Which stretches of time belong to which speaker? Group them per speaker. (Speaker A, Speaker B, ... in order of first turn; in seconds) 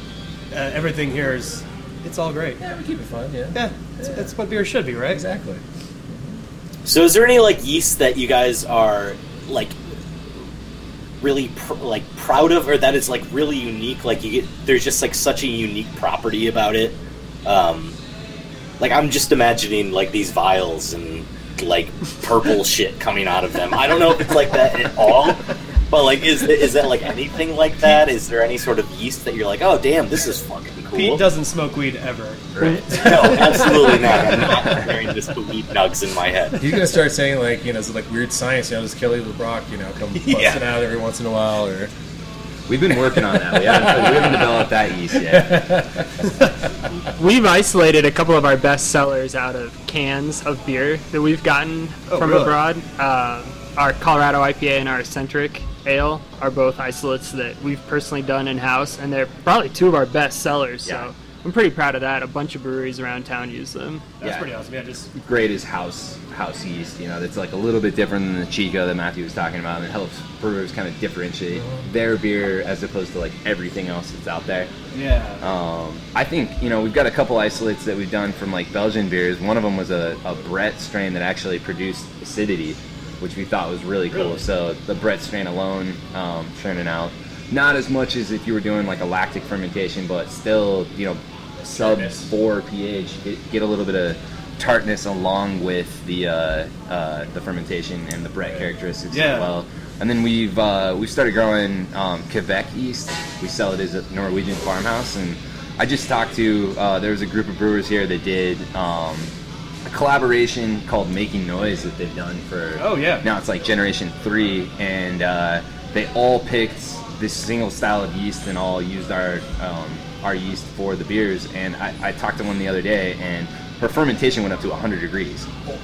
Speaker A: 0.5-2.6, 3.5-5.2, 30.9-33.7, 40.2-40.6, 52.1-52.6, 64.2-65.1, 74.9-75.4, 84.1-84.4, 99.1-99.5, 112.8-113.2
Speaker B: 2.6-4.3, 5.1-6.4, 36.6-41.9, 45.3-46.3, 91.6-92.3
Speaker C: 6.8-9.8, 11.2-17.9, 18.8-31.2, 32.9-36.6
Speaker D: 42.7-45.8, 65.1-74.7, 75.4-109.3, 109.8-125.5
Speaker E: 47.1-64.0